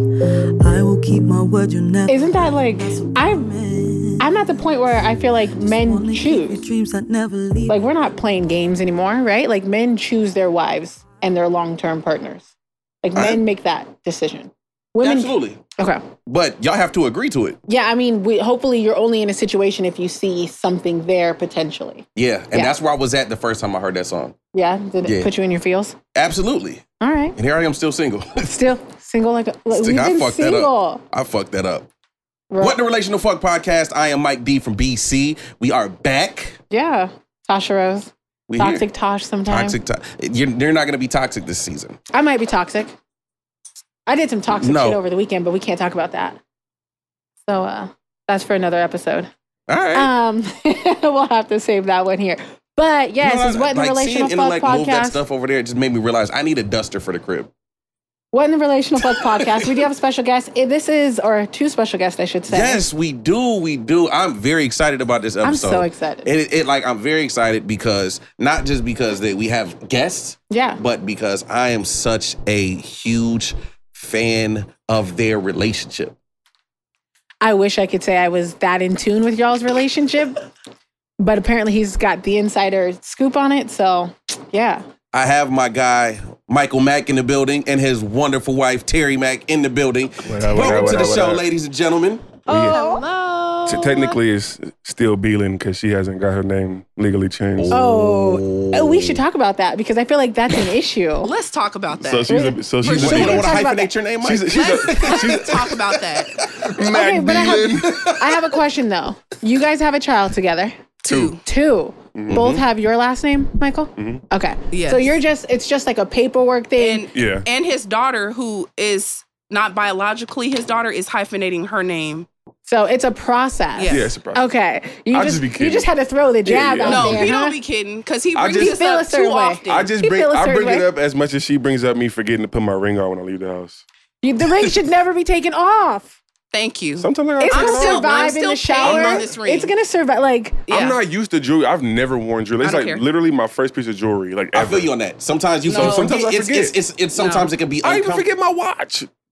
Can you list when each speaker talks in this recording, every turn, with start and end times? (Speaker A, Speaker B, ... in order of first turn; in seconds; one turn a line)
Speaker A: 0.2-8.2
Speaker B: 2.1-3.5
Speaker B: 4.2-6.6
Speaker B: 7.7-12.5
Speaker B: 13.0-16.0
Speaker C: 13.2-13.4
Speaker C: 15.0-15.6
Speaker C: 16.3-17.6
Speaker B: 17.7-22.8
Speaker C: 22.2-24.4
Speaker B: 24.5-26.0
Speaker C: 25.1-25.3
Speaker C: 26.1-26.9
Speaker B: 27.0-27.4
Speaker C: 27.4-28.5
Speaker B: 28.4-31.0
Speaker C: 29.7-31.9
Speaker B: 32.5-32.8
Speaker C: 32.6-36.6
Speaker B: 36.7-39.8
Speaker C: 38.5-38.9
Speaker C: 39.5-42.0
Speaker B: 42.1-43.0
Speaker B: 44.1-46.4
Speaker C: 44.6-45.0
Speaker B: 47.5-49.3
Speaker C: 49.7-50.1
Speaker B: 50.0-55.2
Speaker C: 53.2-57.5
Speaker B: 58.3-62.9
Speaker C: 59.2-59.6
Speaker C: 62.5-76.2
Speaker B: 65.4-66.3
Speaker B: 70.5-70.8
Speaker B: 77.4-80.4
Speaker B: 81.2-84.8
Speaker C: 85.1-92.4
Speaker D: 90.2-91.5
Speaker D: 92.5-92.8
Speaker B: 92.5-93.0
Speaker E: 92.5-94.2
Speaker D: 93.7-97.8
Speaker C: 97.6-99.2
Speaker B: 97.7-101.3
Speaker E: 101.2-103.4
Speaker D: 102.0-103.6
Speaker B: 102.3-103.9
Speaker C: 102.8-106.8
Speaker D: 104.2-105.6
Speaker E: 104.5-106.5
Speaker D: 106.7-108.0
Speaker B: 106.8-110.8
Speaker C: 107.4-108.5
Speaker E: 111.0-111.4
Speaker D: 111.1-111.4
Speaker B: 111.4-117.0
Speaker D: 112.2-112.5
Speaker C: 112.3-112.6
Speaker E: 114.7-115.1
Speaker E: 116.8-122.3
Speaker D: 117.1-117.5
Speaker B: 122.7-127.6
Speaker E: 123.8-124.1
Speaker D: 123.9-124.5
Speaker D: 125.1-125.9
Speaker D: 126.4-127.3
Speaker E: 126.8-129.9
Speaker D: 128.3-128.8
Speaker B: 128.6-130.9
Speaker D: 129.7-133.8
Speaker B: 134.2-136.2
Speaker E: 136.5-139.7
Speaker D: 137.0-139.3
Speaker B: 137.4-140.7
Speaker E: 140.7-141.0
Speaker D: 140.7-144.9
Speaker E: 142.6-143.0
Speaker C: 144.5-148.2
Speaker E: 145.7-146.2
Speaker D: 145.7-146.8
Speaker E: 147.2-147.5
Speaker D: 147.8-149.1